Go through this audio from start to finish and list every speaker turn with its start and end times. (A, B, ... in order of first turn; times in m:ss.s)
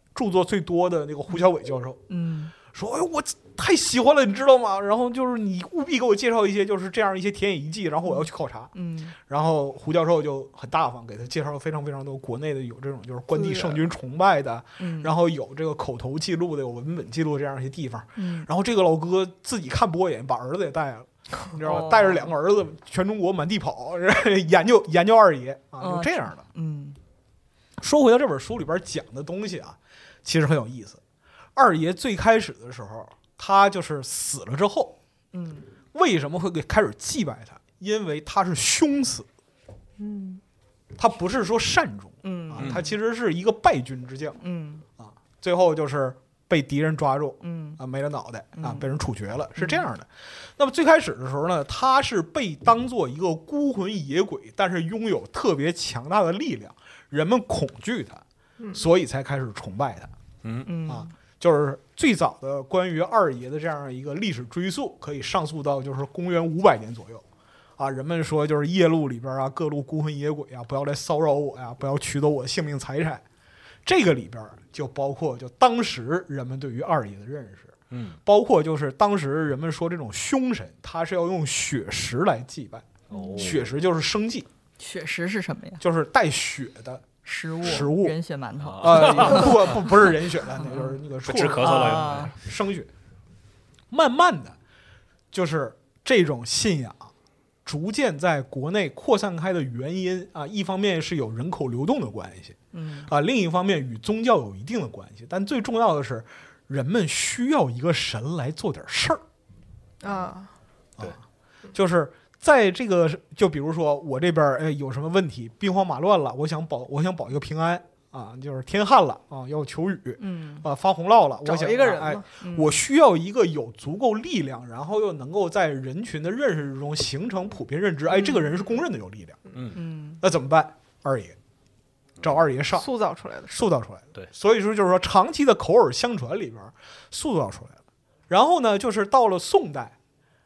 0:00.1-0:02.0 A
0:02.1-0:02.5 B
0:02.6-0:26.4 A
0:08.0-0:09.1 B
0:13.3-0:13.8 C
0:14.8-0:15.1 B
0:18.2-0:18.5 B
0:21.6-0:22.3 B
0:25.8-0:27.0 B
0:27.8-0:31.0 A
0:31.6-0:35.0 A
0:35.3-0:35.6 B
0:35.9-0:39.3 A
0:40.0-0:40.4 C
0:41.0-0:44.4 A
0:42.2-0:42.8 B
0:42.6-0:42.9 D
0:44.4-0:44.8 B
0:45.0-0:58.2 A
0:47.4-0:47.8 B
0:48.6-0:48.9 B
0:49.6-0:49.9 B
0:58.7-1:00.1 A
1:00.6-1:01.1 B
1:00.9-1:07.2 A
1:07.8-1:13.2 A
1:13.8-1:17.7 A
1:17.9-1:18.2 D
1:18.2-1:22.9 A
1:23.1-1:23.7 D
1:23.1-1:23.5 B
1:23.4-1:24.5 A
1:24.8-1:25.8 B
1:25.8-1:27.0 A
1:27.2-1:29.8 B
1:27.6-1:28.2 A
1:28.6-1:29.8 D
1:28.8-1:32.9 A
1:30.6-1:31.0 B
1:31.2-1:32.4 D
1:31.6-1:32.3 B
1:33.9-1:34.6 A
1:35.3-1:37.1 A
1:37.6-1:49.2 A
1:42.7-1:43.1 B
1:50.0-1:50.5 C
1:51.7-2:09.4 A
2:00.2-2:00.6 B
2:01.4-2:02.2 C
2:02.4-2:02.7 B
2:09.7-2:10.2 B
2:10.2-2:11.4 A
2:12.2-2:12.9 A
2:12.7-2:13.6 C
2:13.5-2:17.8 A
2:18.3-2:19.9 A